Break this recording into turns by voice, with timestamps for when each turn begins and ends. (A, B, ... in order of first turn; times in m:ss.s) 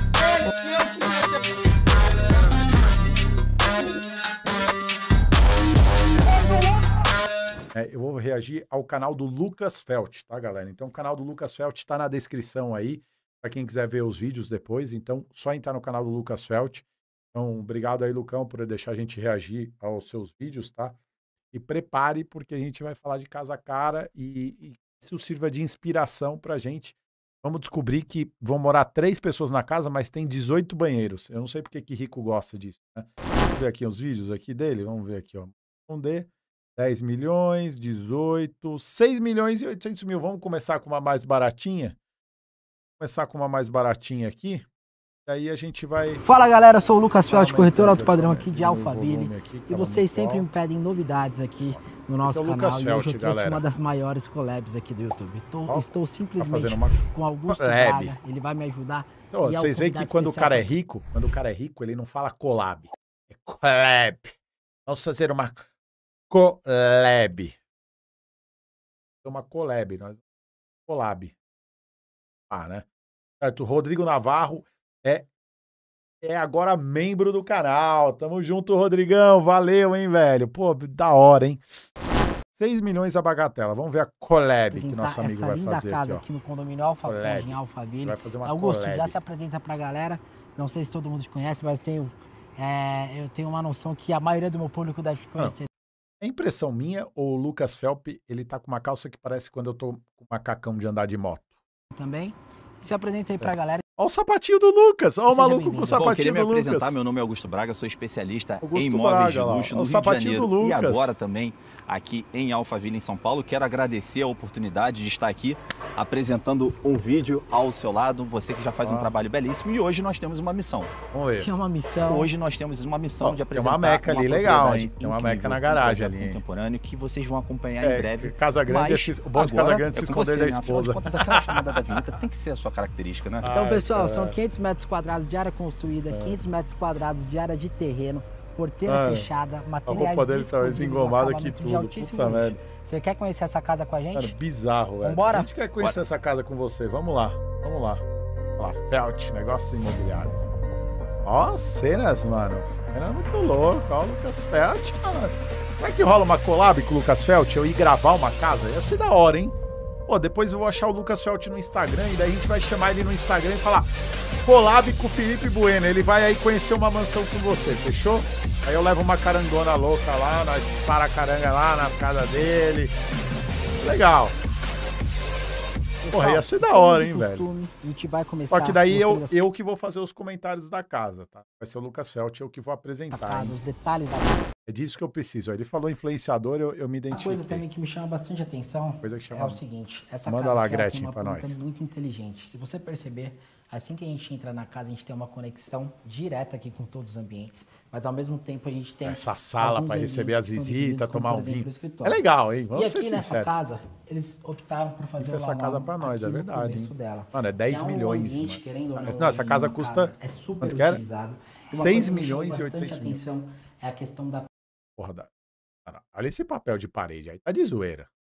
0:00.4-0:01.2 A
0:07.7-0:21.0 B
0:21.5-0:42.0 B
0:43.0-0:44.6 B
0:45.2-0:46.2 B
0:46.2-1:00.7 C
0:47.2-0:50.4 B
0:51.7-0:53.6 B
0:55.7-0:57.0 B
0:57.5-0:58.2 B
0:59.3-1:05.6 B
1:06.3-1:07.5 B
1:09.2-1:10.2 B
1:10.9-1:11.3 B
1:12.5-1:12.8 B
1:13.4-1:15.3 B
1:16.2-1:21.6 B
1:22.5-1:26.2 B
1:24.7-1:35.7 C
1:27.0-1:29.2 B
1:36.2-1:41.5 B
1:41.9-1:43.8 C
1:43.4-1:46.9 B
1:45.3-1:46.1 C
1:45.8-2:00.9 A
1:48.6-1:51.1 B
1:58.8-1:59.1 B
2:01.1-2:01.5 B
2:01.4-2:02.3 C
2:02.0-2:13.5 A
2:03.2-2:06.4 B
2:07.8-2:11.9 B
2:13.4-2:14.4 B
2:13.5-2:24.3 C
2:16.1-2:16.4 B
2:18.9-2:19.3 B
2:19.9-2:22.6 B
2:24.1-2:28.0 B
2:25.0-2:25.5 C
2:28.6-2:30.4 B
2:31.2-2:43.9 B
2:44.4-2:52.9 B
2:53.8-2:54.3 B
2:56.0-2:59.5 C
2:56.1-2:57.5 B
2:58.5-3:03.6 B
3:03.1-3:04.5 C
3:04.6-3:07.6 B
3:07.1-3:34.5 C
3:09.0-3:09.6 B
3:10.2-3:11.6 B
3:19.0-3:23.5 B
3:25.2-3:31.0 B
3:31.7-3:33.2 B
3:35.0-3:35.3 B
3:35.8-3:38.1 B